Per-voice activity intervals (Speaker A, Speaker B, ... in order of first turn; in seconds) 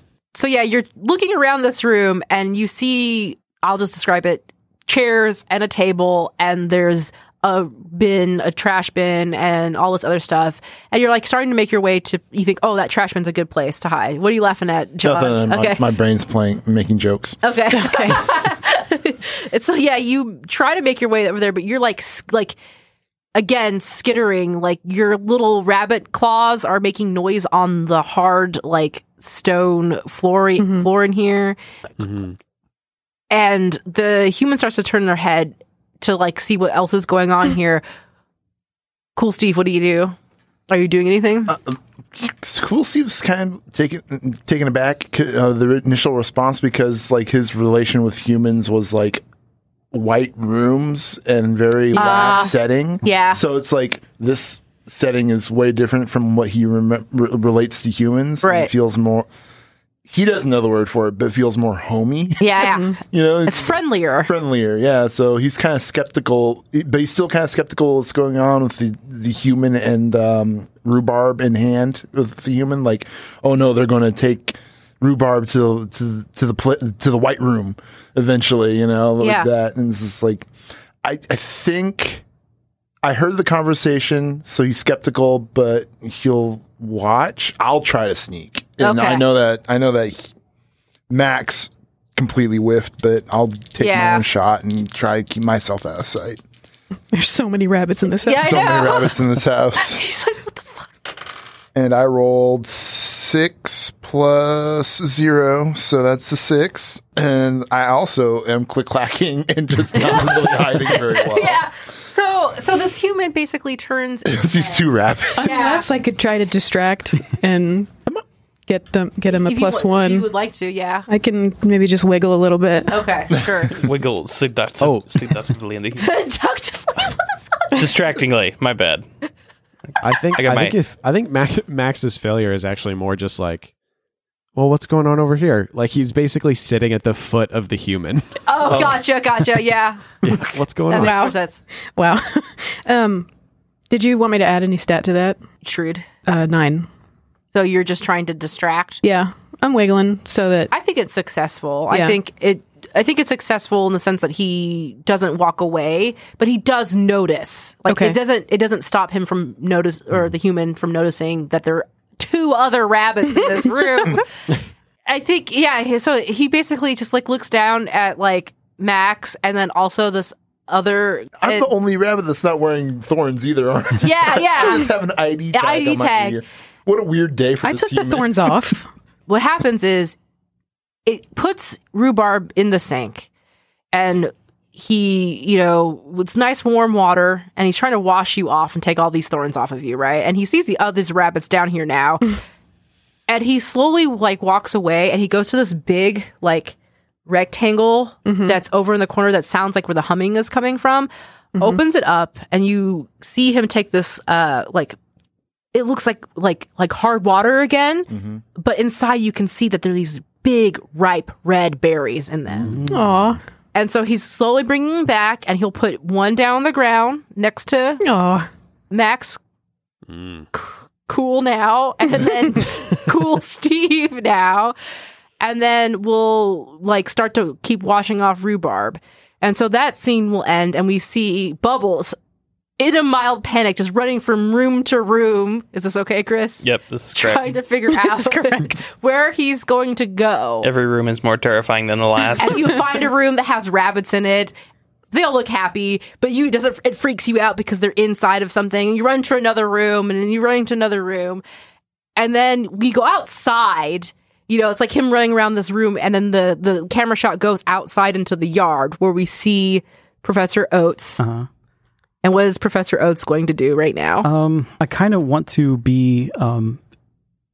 Speaker A: 0.3-15.8, 17.4-22.6, 23.3-31.6, 33.3-37.8, 39.1-40.1, 40.7-41.5, 51.9-53.4, 58.4-58.7, 62.4-64.3, 79.2-79.5, 88.8-89.2, 93.8-94.2, 98.2-99.2, 99.8-100.9, 109.9-115.8, 119.3-121.1, 122.9-123.8, 126.0-127.2, 138.5-140.1, 140.9-141.6, 145.6-146.1, 147.5-149.0, 150.7-164.2, 165.1-171.7, 174.0-174.9, 175.5-176.4, 179.3-180.2, 181.1-183.3, 183.9-192.4, 193.3-196.7, 197.3-205.0, 205.7-212.8, 213.7-218.0, 218.9-219.4, 220.5-224.7, 225.4-232.2, 232.8-240.7, 242.4-244.5, 245.1-251.4, 252.2-261.2, 262.2-264.3
Speaker B: 15.0-17.4, 41.5-49.2, 49.9-59.3, 60.1-80.5, 81.0-82.2, 83.0-90.3, 91.1-96.4, 98.4-100.0, 101.7-111.6, 114.3-115.8, 171.4-178.5, 208.1-208.4
Speaker C: 17.7-18.2, 30.6-30.9, 97.1-98.8, 115.3-117.9, 118.7-120.3, 121.1-123.0, 140.9-141.3, 142.0-143.3, 143.9-145.4, 146.2-146.9, 149.0-150.7, 151.9-152.2, 157.9-158.2, 177.6-178.9, 198.2-198.6, 212.9-213.4, 218.0-218.5, 237.9-238.8
Speaker D: 32.0-32.4, 124.8-125.1, 130.0-133.7, 134.5-139.0, 140.2-141.2, 220.1-220.4
Speaker E: 123.7-126.1, 127.7-129.0, 130.3-130.8, 236.6-237.6, 240.6-242.8
Speaker F: 212.7-213.0, 261.2-261.5, 264.2-266.8